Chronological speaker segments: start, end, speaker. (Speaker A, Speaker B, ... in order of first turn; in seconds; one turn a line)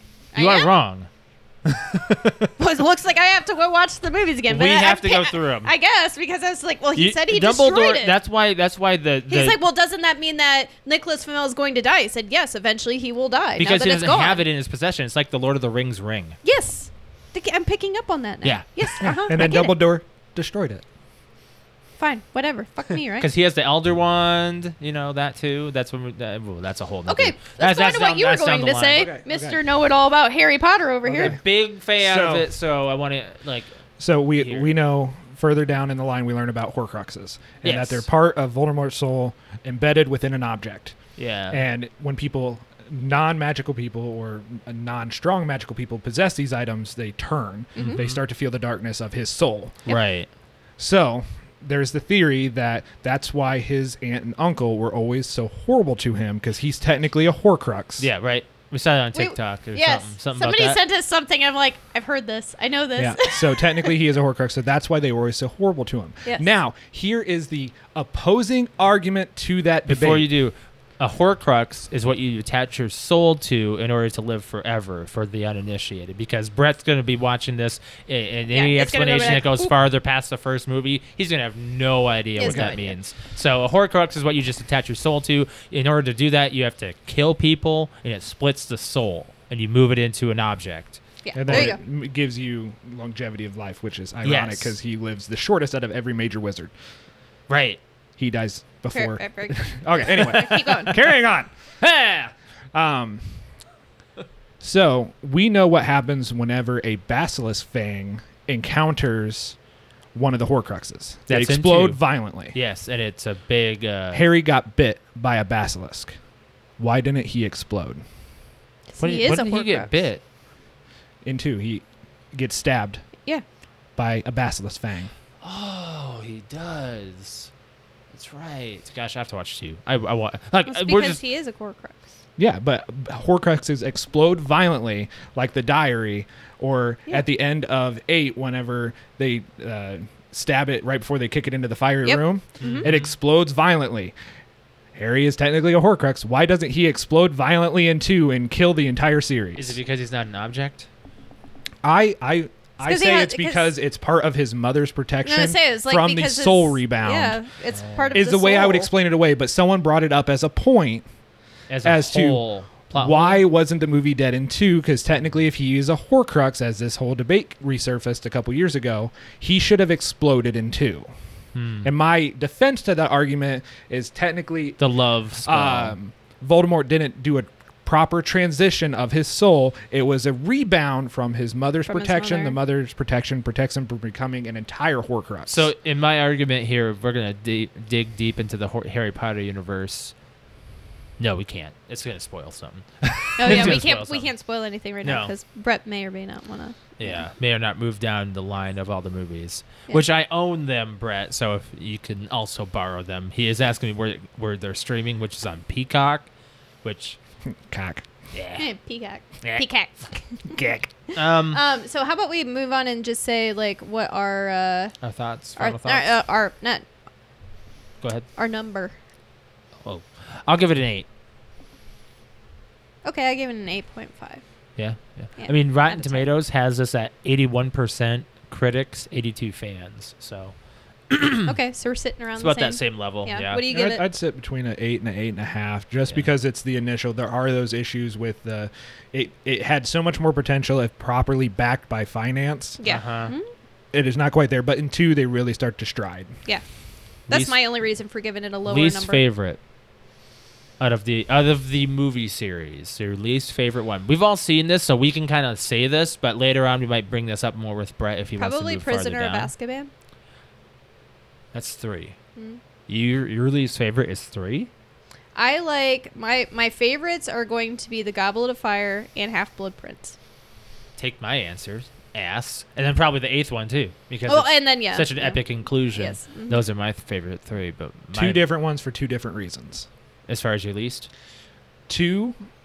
Speaker A: 0.3-0.7
Speaker B: 0.3-1.1
Speaker B: 1.9-2.3
Speaker A: 2.6-8.2
Speaker B: 4.5-5.7
Speaker B: 7.0-9.6
Speaker A: 9.3-14.4
Speaker B: 13.6-16.4
Speaker A: 16.4-19.8
Speaker B: 18.4-19.2
Speaker C: 19.0-20.8
Speaker A: 22.0-23.3
Speaker B: 23.2-29.1
Speaker A: 27.1-31.4
Speaker C: 29.0-29.6
Speaker C: 31.1-31.4
Speaker B: 31.1-33.7
Speaker C: 32.0-32.5
Speaker C: 34.0-41.0
Speaker B: 34.4-34.7
Speaker B: 37.6-38.1
Speaker B: 41.2-41.6
Speaker C: 41.5-49.8
Speaker B: 47.8-48.2
Speaker B: 49.9-50.3
Speaker C: 50.8-58.1
Speaker B: 58.0-60.8
Speaker A: 59.1-64.0
Speaker C: 63.0-70.3
Speaker B: 69.9-91.7
Speaker A: 78.5-79.7
Speaker A: 82.4-83.0
Speaker C: 82.4-82.8
Speaker A: 91.2-91.8
Speaker C: 91.3-96.7
Speaker B: 94.2-94.8
Speaker B: 97.5-97.8
Speaker C: 98.2-101.5
Speaker A: 98.9-100.9
Speaker B: 101.8-102.3
Speaker C: 102.7-103.4
Speaker C: 104.6-109.6
Speaker C: 110.1-112.6
Speaker B: 111.3-112.0
Speaker B: 112.5-114.3
Speaker C: 114.1-116.2
Speaker C: 116.8-118.0
Speaker A: 118.9-119.9
Speaker B: 119.0-120.2
Speaker C: 121.2-123.0
Speaker C: 124.0-125.1
Speaker B: 125.4-127.5
Speaker B: 128.1-131.2
Speaker A: 130.7-132.2
Speaker C: 132.4-144.1
Speaker A: 142.1-142.9
Speaker B: 142.6-143.1
Speaker C: 144.9-149.8
Speaker B: 149.6-150.9
Speaker C: 151.8-157.4
Speaker A: 152.8-153.7
Speaker A: 155.2-158.9
Speaker B: 157.7-158.2
Speaker C: 158.1-161.1
Speaker B: 161.7-163.4
Speaker C: 161.8-171.1
Speaker B: 171.6-171.9
Speaker C: 171.8-174.8
Speaker B: 174.8-175.9
Speaker C: 175.4-185.7
Speaker A: 181.9-182.6
Speaker B: 185.5-190.1
Speaker B: 191.2-194.3
Speaker A: 193.4-197.2
Speaker B: 195.0-195.3
Speaker B: 197.0-206.3
Speaker B: 206.8-207.2
Speaker C: 207.5-208.1
Speaker B: 208.3-208.7
Speaker A: 208.6-210.6
Speaker B: 209.4-209.7
Speaker C: 210.5-210.9
Speaker B: 211.1-211.6
Speaker A: 211.1-215.0
Speaker B: 215.0-216.1
Speaker A: 215.6-216.8
Speaker B: 218.0-218.3
Speaker A: 218.4-218.9
Speaker B: 219.8-221.1
Speaker A: 223.1-224.4
Speaker B: 224.8-230.6
Speaker A: 225.4-226.3
Speaker B: 231.1-231.5
Speaker A: 231.5-234.0
Speaker B: 232.4-233.6
Speaker C: 233.7-242.8
Speaker A: 242.8-243.5
Speaker B: 242.8-243.3
Speaker C: 243.9-246.3
Speaker A: 247.3-249.2
Speaker B: 247.3-247.6
Speaker B: 248.7-249.6
Speaker B: 250.8-259.5
Speaker A: 258.4-259.9
Speaker B: 261.5-262.2
Speaker B: 262.9-264.7
Speaker A: 265.4-270.2
Speaker B: 271.0-278.4
Speaker A: 274.3-275.4
Speaker A: 275.9-276.6
Speaker C: 278.1-279.9
Speaker B: 280.3-281.1
Speaker C: 281.9-282.4